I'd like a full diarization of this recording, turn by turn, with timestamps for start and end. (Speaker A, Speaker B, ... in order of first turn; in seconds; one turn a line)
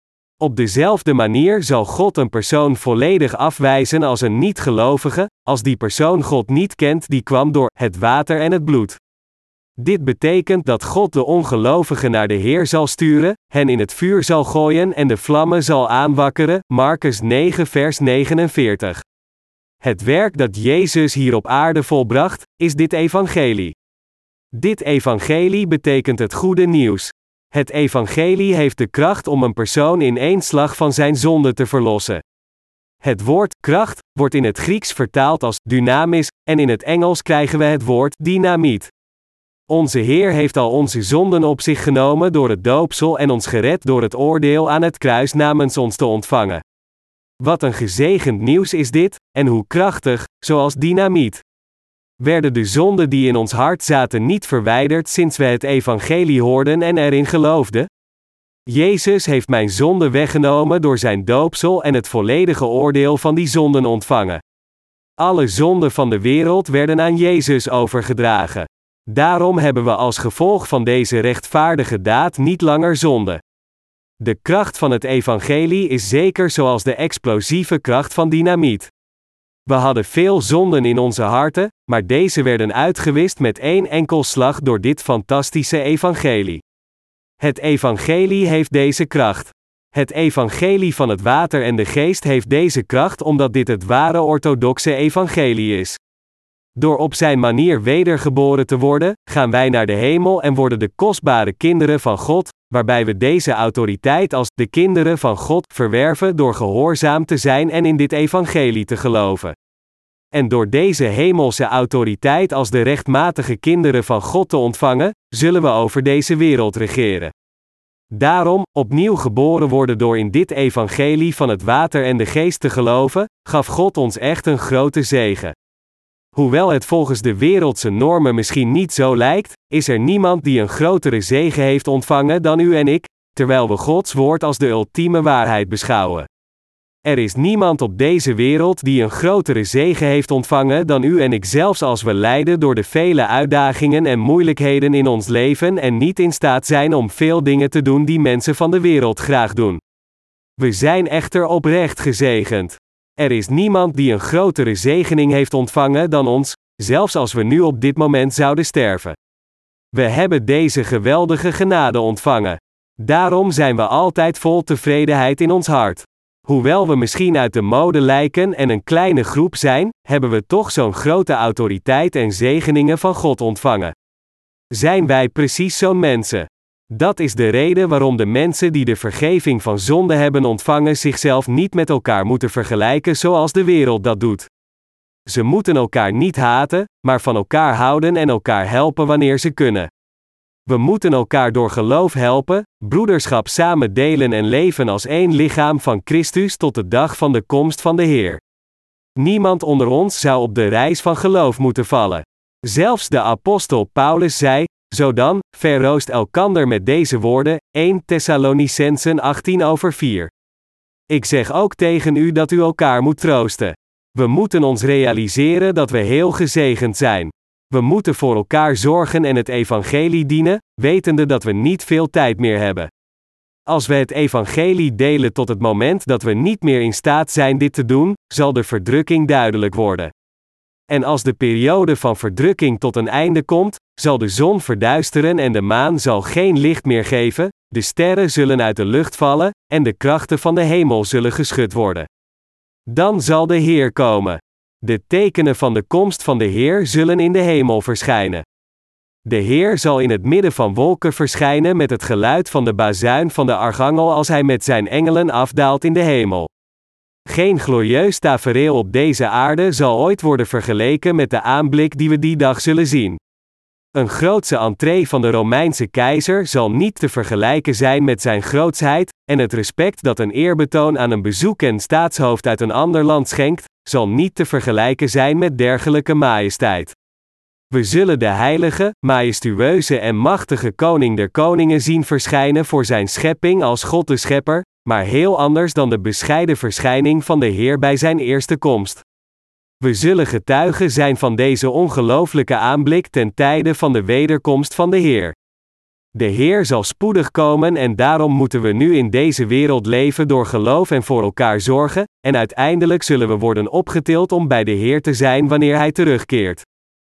Speaker A: 0.4-9.0
Speaker A: 9.8-19.0
Speaker A: 19.8-23.8
Speaker A: 24.5-32.2
Speaker A: 33.0-38.9
Speaker A: 39.7-46.6
Speaker A: 47.4-51.4
Speaker A: 52.2-57.9
Speaker A: 58.7-64.4
Speaker A: 65.2-73.4
Speaker A: 74.2-78.9
Speaker A: 79.7-86.6
Speaker A: 87.4-96.0
Speaker A: 96.8-109.6
Speaker A: 110.3-117.3
Speaker A: 118.1-125.6
Speaker A: 126.3-136.3
Speaker A: 137.1-149.8
Speaker A: 150.6-159.2
Speaker A: 159.9-173.9
Speaker A: 174.7-184.5
Speaker A: 185.3-189.9
Speaker A: 190.7-198.4
Speaker A: 199.2-210.3
Speaker A: 211.1-222.9
Speaker A: 223.7-230.1
Speaker A: 230.9-242.1
Speaker A: 242.9-248.4
Speaker A: 249.2-256.5
Speaker A: 257.3-263.2
Speaker A: 263.9-277.0
Speaker A: 277.7-289.0
Speaker A: 289.8-295.4
Speaker A: 296.1-306.6